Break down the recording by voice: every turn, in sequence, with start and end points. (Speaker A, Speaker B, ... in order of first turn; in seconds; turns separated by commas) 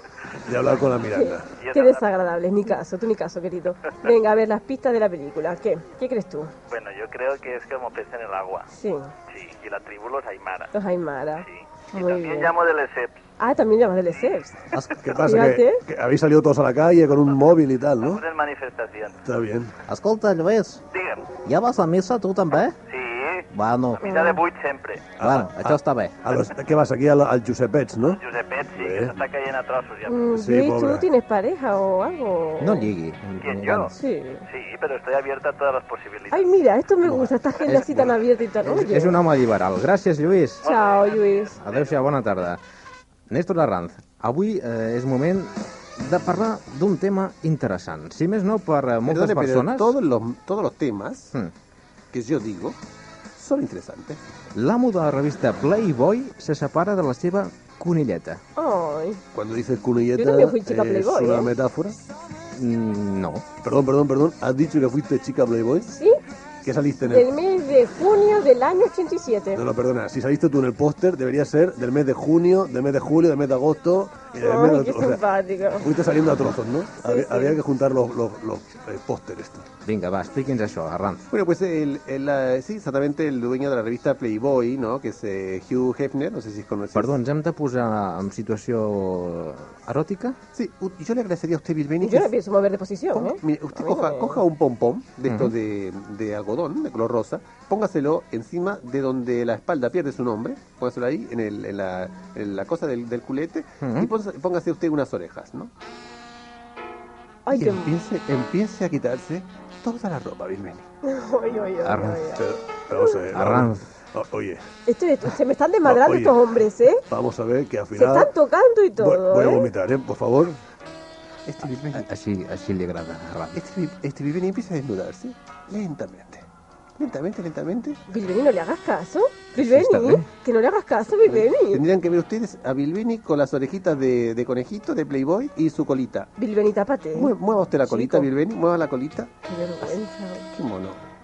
Speaker A: 0.4-1.6, Speaker B: 1.1-6.5, Speaker C: 1.5-2.0, Speaker C: 6.7-8.7, Speaker B: 8.7-9.1, Speaker C: 9.3-10.7, Speaker B: 10.7-12.5, Speaker C: 11.4-13.1, Speaker B: 13.4-14.6, Speaker A: 15.0-18.2, Speaker B: 15.2-15.8, Speaker C: 18.0-19.2, Speaker A: 19.2-19.7, Speaker D: 19.9-20.8, Speaker C: 20.9-21.2, Speaker D: 21.4-22.8, Speaker C: 22.9-23.4, Speaker D: 23.5-24.0, Speaker C: 24.0-25.1, Speaker B: 24.0-24.4, Speaker A: 25.2-28.2, Speaker D: 25.2-26.3, Speaker C: 28.2-30.2, Speaker A: 28.8-29.1, Speaker B: 30.1-32.9, Speaker A: 30.3-31.0, Speaker E: 32.6-33.9, Speaker C: 33.4-33.9, Speaker B: 33.9-34.4, Speaker C: 34.5-36.5, Speaker B: 36.3-39.2, Speaker E: 37.7-38.1, Speaker E: 38.6-40.7, Speaker B: 40.6-41.6, Speaker C: 40.6-41.9, Speaker E: 41.6-42.6, Speaker E: 43.3-49.9, Speaker F: 49.1-51.4, Speaker F: 52.1-52.8, Speaker F: 53.4-54.2, Speaker E: 54.5-58.4, Speaker B: 58.5-59.2, Speaker A: 59.3-62.0, Speaker B: 60.1-61.5, Speaker E: 62.5-63.5, Speaker A: 63.6-65.9, Speaker B: 65.9-66.2, Speaker A: 66.6-67.3, Speaker B: 67.0-69.6, Speaker A: 69.5-75.2, Speaker B: 74.4-75.9, Speaker A: 75.8-79.7, Speaker B: 77.0-77.6, Speaker E: 79.8-81.3, Speaker F: 81.3-87.2, Speaker E: 86.9-90.4, Speaker F: 90.5-92.3, Speaker B: 92.0-94.4, Speaker F: 93.1-105.7, Speaker E: 95.3-95.5, Speaker E: 103.8-104.1, Speaker B: 107.5-108.0, Speaker F: 107.5-110.8, Speaker B: 111.0-112.4, Speaker E: 111.8-112.2, Speaker A: 112.3-114.6, Speaker E: 113.3-113.8, Speaker B: 114.9-117.0, Speaker A: 115.8-116.4, Speaker A: 117.1-118.3, Speaker B: 117.9-119.7, Speaker A: 119.0-120.6, Speaker F: 121.5-122.1, Speaker E: 121.9-123.6, Speaker F: 123.5-126.4, Speaker F: 127.0-128.0, Speaker B: 128.1-131.8, Speaker E: 129.6-130.2, Speaker F: 131.3-136.3, Speaker B: 136.4-137.3, Speaker F: 137.1-139.9, Speaker B: 137.8-138.3, Speaker B: 139.5-140.4, Speaker F: 140.5-141.0